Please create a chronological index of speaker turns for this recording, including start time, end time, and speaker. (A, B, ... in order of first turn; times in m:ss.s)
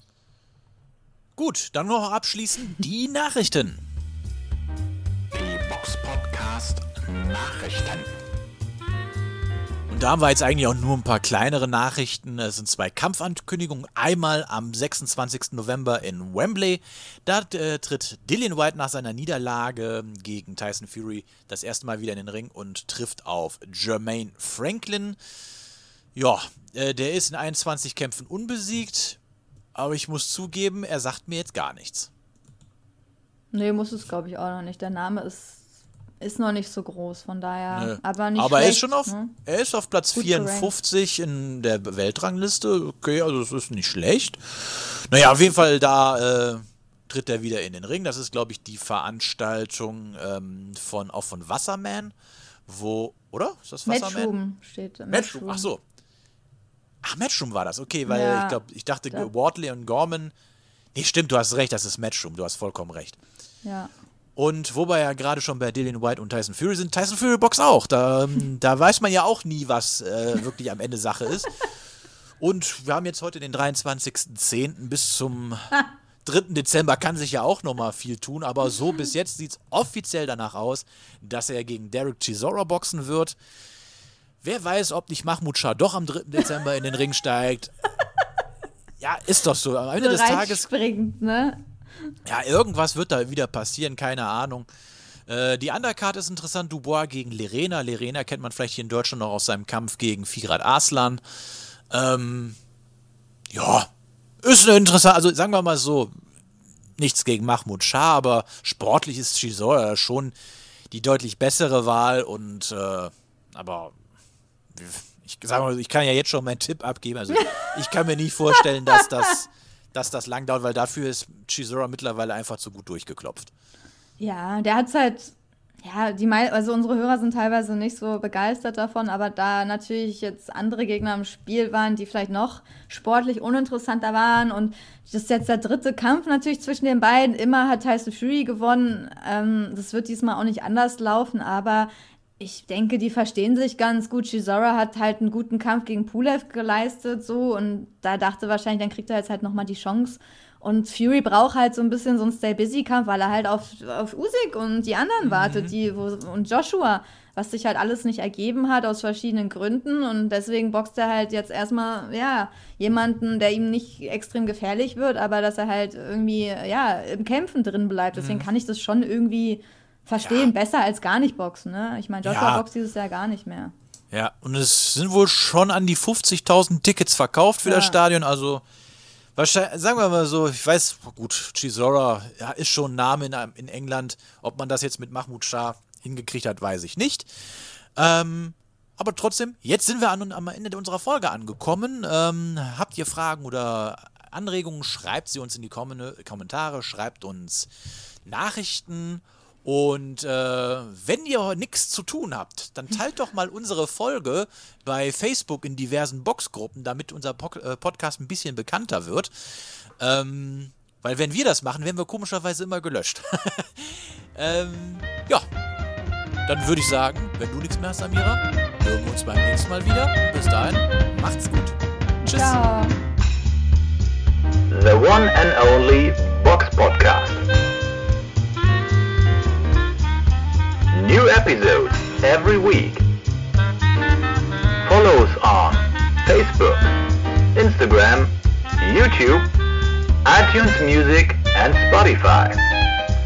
0:01.4-0:03.8 A
0:05.3-0:08.1 B
0:09.9-0:25.2 A
0:26.1-0:29.2 A
0:29.7-0:32.1 A
0:33.5-0:35.7 C
0:36.2-0:39.3 C
0:37.7-0:52.1 A
0:40.1-0:40.7 C
0:52.7-0:54.3 A
0:53.8-0:55.7 C
0:55.1-0:55.8 A
0:57.0-1:00.3 A
0:58.0-0:58.6 C
1:00.9-1:03.2 A
1:03.6-1:03.9 C
1:04.4-1:11.6 A
1:12.4-1:23.4 A
1:24.4-1:27.7 A
1:29.0-1:30.6 A
1:30.0-1:31.6 C
1:32.2-1:34.7 A
1:35.3-1:41.2 A
1:41.9-1:42.6 A
1:43.5-1:43.9 A
1:44.4-1:46.1 A
1:47.0-1:50.3 A
1:50.9-1:53.9 A
1:54.7-2:03.5 A
1:57.4-1:57.7 C
2:04.2-2:53.7 C
2:35.2-2:35.7 A
2:48.1-2:48.4 A
2:50.2-2:50.5 A
2:52.2-2:52.6 A
2:54.1-2:58.6 A
2:57.6-2:58.0 C
2:59.4-3:17.7 A
3:18.2-3:35.4 A
3:36.5-3:42.6 A
3:42.2-3:43.0 C
3:44.7-3:47.4 D
3:50.9-3:53.0 D
3:54.8-3:57.0 D
3:57.5-3:59.5 D
4:00.2-4:02.7 D